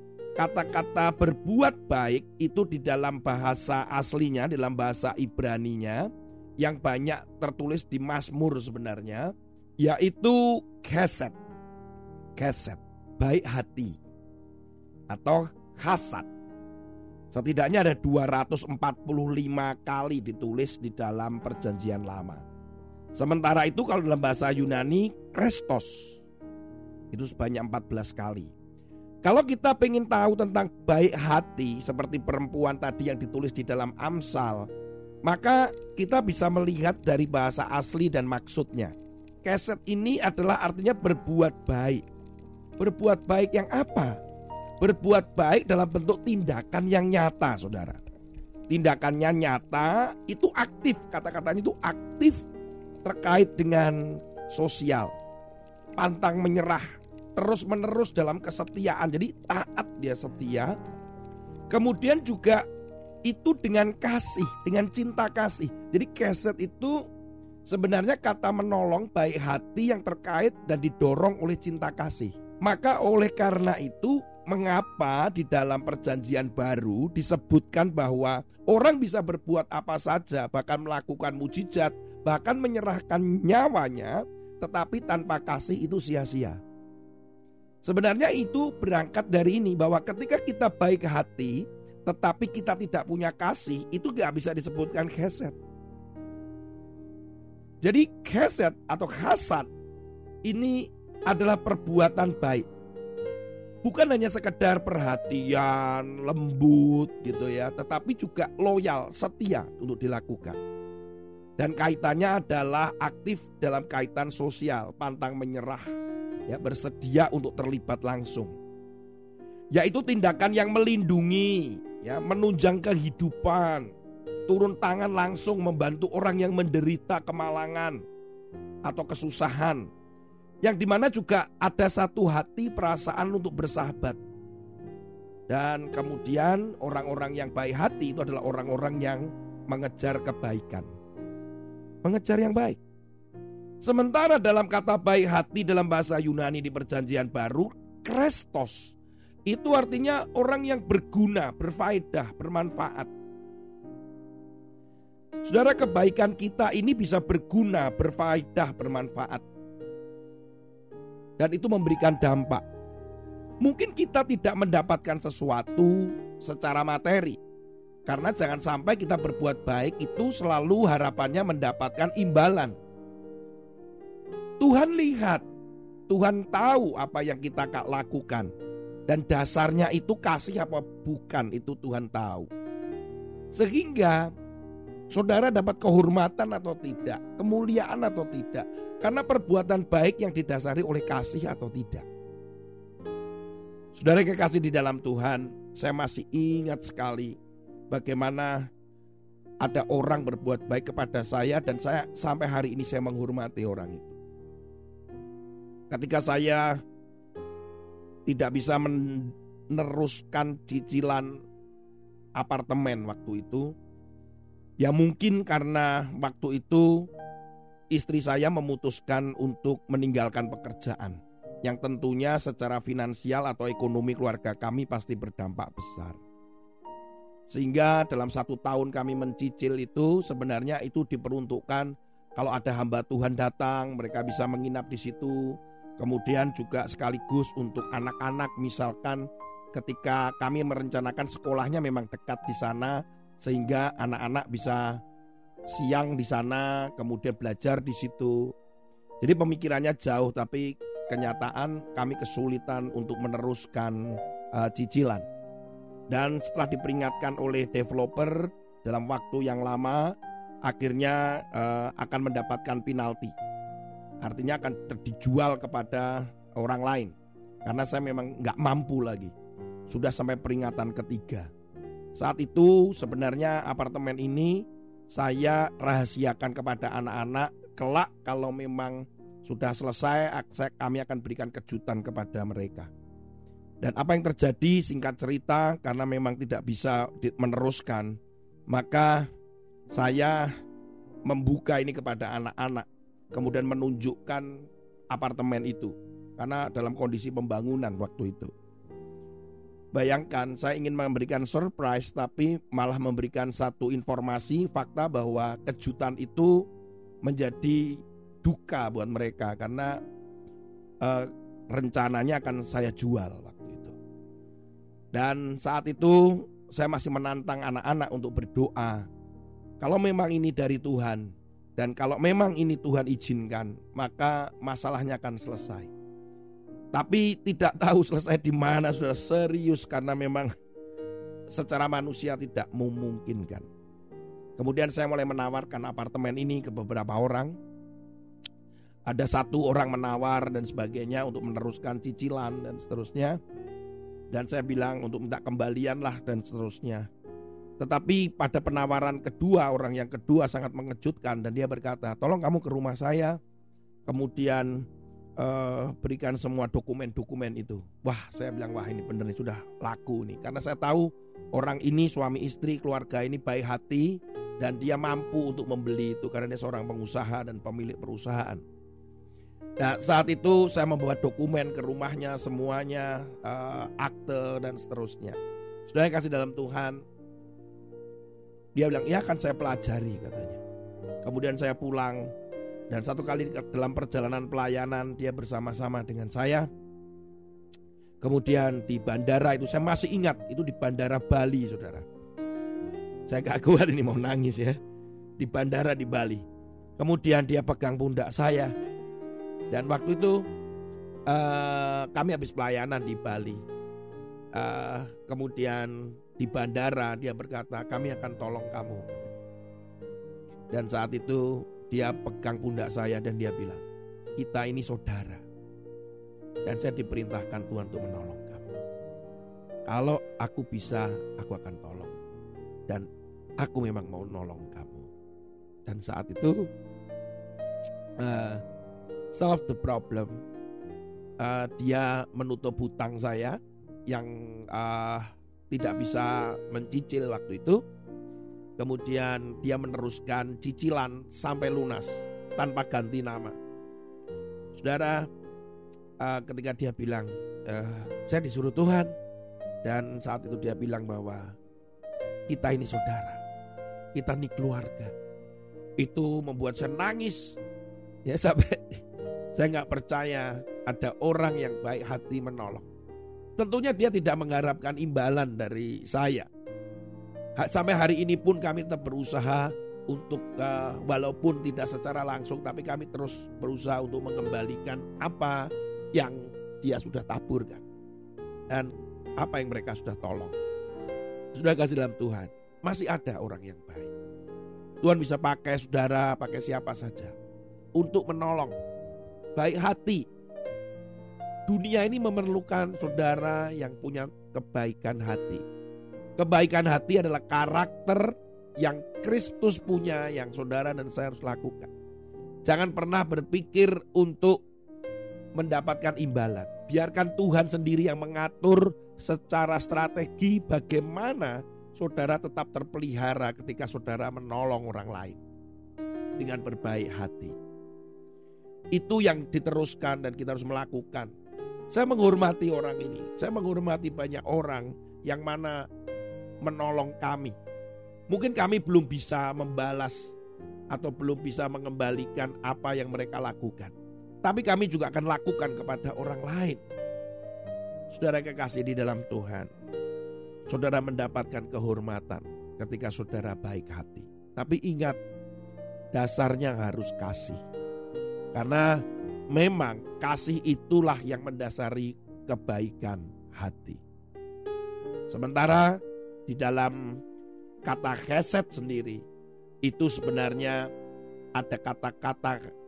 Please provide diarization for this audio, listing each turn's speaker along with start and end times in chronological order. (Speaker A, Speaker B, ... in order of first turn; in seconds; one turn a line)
Speaker A: 0.3-11.3
Speaker A: 12.3-14.0
Speaker A: 15.1-16.3
Speaker A: 17.3-22.4
Speaker A: 23.1-26.2
Speaker A: 27.1-28.5
Speaker A: 29.2-34.7
Speaker A: 35.2-42.0
Speaker A: 42.8-44.2
Speaker A: 44.8-48.0
Speaker A: 48.7-52.5
Speaker A: 53.0-55.1
Speaker A: 56.0-60.8
Speaker A: 61.7-62.6
Speaker A: 63.2-67.0
Speaker A: 67.7-86.6
Speaker A: 87.8-95.6
Speaker A: 97.8-99.7
Speaker A: 100.4-102.7
Speaker A: 103.8-110.6
Speaker A: 111.6-115.9
Speaker A: 116.5-118.6
Speaker A: 119.7-123.9
Speaker A: 124.5-128.0
Speaker A: 128.8-129.9
Speaker A: 130.6-134.2
Speaker A: 135.5-140.9
Speaker A: 142.0-142.8
Speaker A: 143.8-153.1
Speaker A: 155.4-159.4
Speaker A: 161.4-162.6
Speaker A: 163.6-167.4
Speaker A: 168.1-172.8
Speaker A: 174.6-175.4
Speaker A: 176.1-178.5
Speaker A: 179.1-182.5
Speaker A: 183.5-184.3
Speaker A: 185.1-192.1
Speaker A: 193.9-197.4
Speaker A: 197.9-198.7
Speaker A: 199.6-204.2
Speaker A: 205.9-206.8
Speaker A: 208.2-211.4
Speaker A: 212.3-213.7
Speaker A: 214.8-217.1
Speaker A: 217.9-226.2
Speaker A: 227.5-245.0
Speaker A: 245.7-248.5
Speaker A: 249.2-255.3
Speaker A: 256.1-263.3
Speaker A: 264.2-269.3
Speaker A: 269.9-271.5
Speaker A: 272.1-282.9
Speaker A: 283.8-288.2
Speaker A: 288.7-289.3
Speaker A: 289.9-290.5
Speaker A: 291.2-298.5
Speaker A: 299.9-306.7
Speaker A: 307.2-310.0
Speaker A: 311.0-313.9
Speaker A: 315.1-319.1
Speaker A: 319.8-325.9
Speaker A: 326.9-330.5
Speaker A: 331.5-333.7
Speaker A: 334.6-337.6
Speaker A: 339.1-343.4
Speaker A: 344.3-347.1
Speaker A: 347.8-353.4
Speaker A: 354.1-354.9
Speaker A: 355.4-368.6
Speaker A: 369.8-377.0
Speaker A: 378.7-380.6
Speaker A: 381.2-382.3
Speaker A: 382.9-386.7
Speaker A: 388.2-392.1
Speaker A: 393.3-394.8
Speaker A: 395.4-396.4
Speaker A: 397.0-398.7
Speaker A: 399.7-400.5
Speaker A: 401.3-403.6
Speaker A: 404.5-409.3
Speaker A: 410.7-413.8
Speaker A: 414.4-415.4
Speaker A: 416.6-418.7
Speaker A: 419.9-422.1
Speaker A: 423.6-425.1
Speaker A: 425.8-426.7
Speaker A: 428.2-428.6
Speaker A: 429.3-430.4
Speaker A: 431.4-437.8
Speaker A: 438.8-443.6
Speaker A: 444.7-445.3
Speaker A: 446.2-449.1
Speaker A: 449.8-451.6
Speaker A: 452.5-453.4
Speaker A: 454.1-455.1
Speaker A: 456.0-457.6
Speaker A: 458.2-459.0
Speaker A: 459.5-462.9
Speaker A: 463.6-466.5
Speaker A: 467.6-477.8
Speaker A: 478.7-480.6
Speaker A: 481.5-484.1
Speaker A: 485.0-487.3
Speaker A: 487.9-488.8
Speaker A: 489.5-490.2
Speaker A: 491.7-495.6
Speaker A: 496.4-501.9
Speaker A: 502.6-504.6
Speaker A: 505.5-515.4
Speaker A: 516.4-517.6
Speaker A: 518.9-521.3
Speaker A: 521.9-525.9
Speaker A: 526.6-527.5
Speaker A: 528.3-530.4
Speaker A: 530.9-536.8
Speaker A: 538.1-539.7
Speaker A: 540.7-545.2
Speaker A: 546.1-547.6
Speaker A: 548.5-554.0
Speaker A: 555.3-557.2
Speaker A: 557.8-559.2
Speaker A: 559.8-560.9
Speaker A: 561.5-562.7